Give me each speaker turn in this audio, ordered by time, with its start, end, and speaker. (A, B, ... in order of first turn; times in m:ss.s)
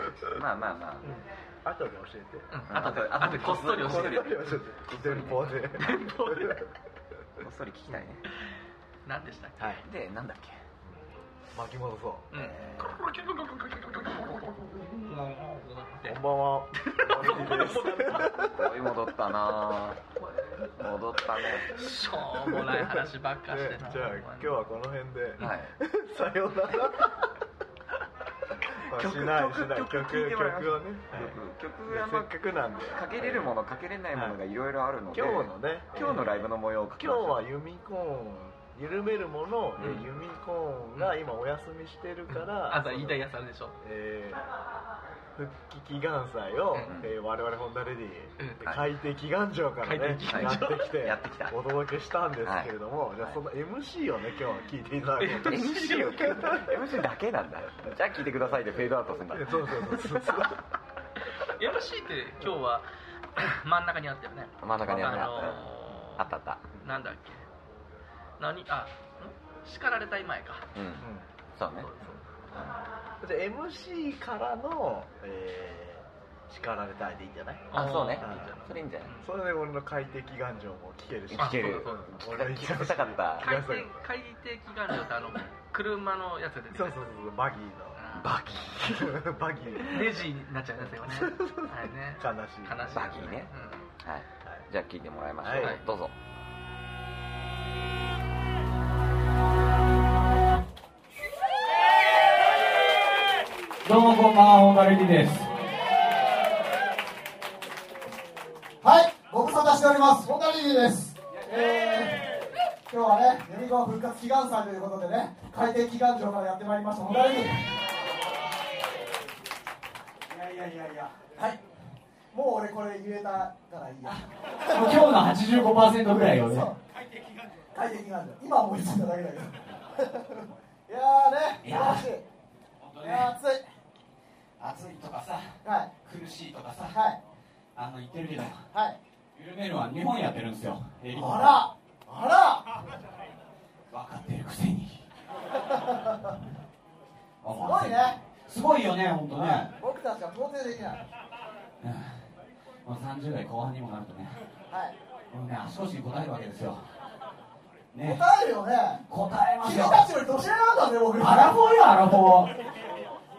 0:00.3-0:01.1 A
0:01.0-0:06.7 B
0:02.5-0:04.6 C
0:02.7-0:05.6 A
0:05.7-0:06.6 C
0:07.4-0:08.2 A
0:09.0-0:09.7 C
0:09.6-0:09.9 B
0:09.8-0:10.6 A
0:10.8-0:12.3 B
0:12.3-0:16.2 C
0:12.4-0:12.9 A
0:16.0-0:18.7 B
0:16.8-0:18.5 C
0:18.5-0:20.0 A
0:20.8-0:21.8 A
0:21.7-0:24.6 C
0:22.4-0:27.3 B
0:25.4-0:25.8 A
0:28.8-0:33.6 B
0:28.9-0:32.4 A
0:32.9-0:37.4 A
0:34.1-0:34.4 B
0:35.1-0:43.2 B
0:39.8-0:40.1 C
0:42.3-0:43.8 C
0:43.8-0:44.4 B
0:45.4-0:56.8 B
0:46.8-0:47.1 A
0:48.4-0:48.8 C
0:49.8-0:50.9 C
0:50.3-0:51.6 A
0:52.4-0:53.4 A
0:55.2-0:56.6 C
0:55.4-0:59.8 A
0:58.8-1:00.6 B
1:01.4-1:06.2 C
1:04.6-1:06.7 A
1:04.8-1:05.6 B
1:06.8-1:07.4 C
1:08.4-1:10.7 C
1:10.8-1:11.9 A
1:11.0-1:11.3 B
1:11.8-1:12.3 C
1:13.2-1:24.0 B
1:17.7-1:19.3 C
1:17.7-1:19.1 A
1:21.3-1:23.5 A
1:21.4-1:22.1 C
1:23.4-1:27.1 C
1:26.7-1:30.3 B
1:28.0-1:28.4 C
1:28.2-1:28.8 A
1:29.9-1:33.9 C
1:30.8-1:33.4 B
1:32.9-1:36.1 A
1:35.4-1:35.8 B
1:43.8-1:45.5 D
1:48.8-1:52.2 E
1:52.9-1:57.6 E
2:00.3-2:01.2 D
2:02.3-2:06.8 E
2:04.1-2:06.7 D
2:07.7-2:12.2 E
2:11.6-2:12.1 D
2:12.8-2:13.3 D
2:13.0-2:13.7 E
2:14.6-2:17.0 D
2:15.6-2:15.9 E
2:16.9-2:17.2 E
2:17.8-2:18.7 D
2:18.7-2:19.0 E
2:19.3-2:21.6 D
2:21.1-2:22.8 E
2:23.9-2:25.1 D
2:25.8-2:26.1 E
2:27.4-2:29.7 D
2:27.6-2:28.2 E
2:29.4-2:31.0 E
2:31.8-2:32.2 D
2:32.8-2:34.4 D
2:35.3-2:36.9 D
2:37.9-2:38.2 D
2:38.0-2:39.0 E
2:39.1-2:40.1 D
2:39.6-2:41.6 E
2:41.2-2:42.5 D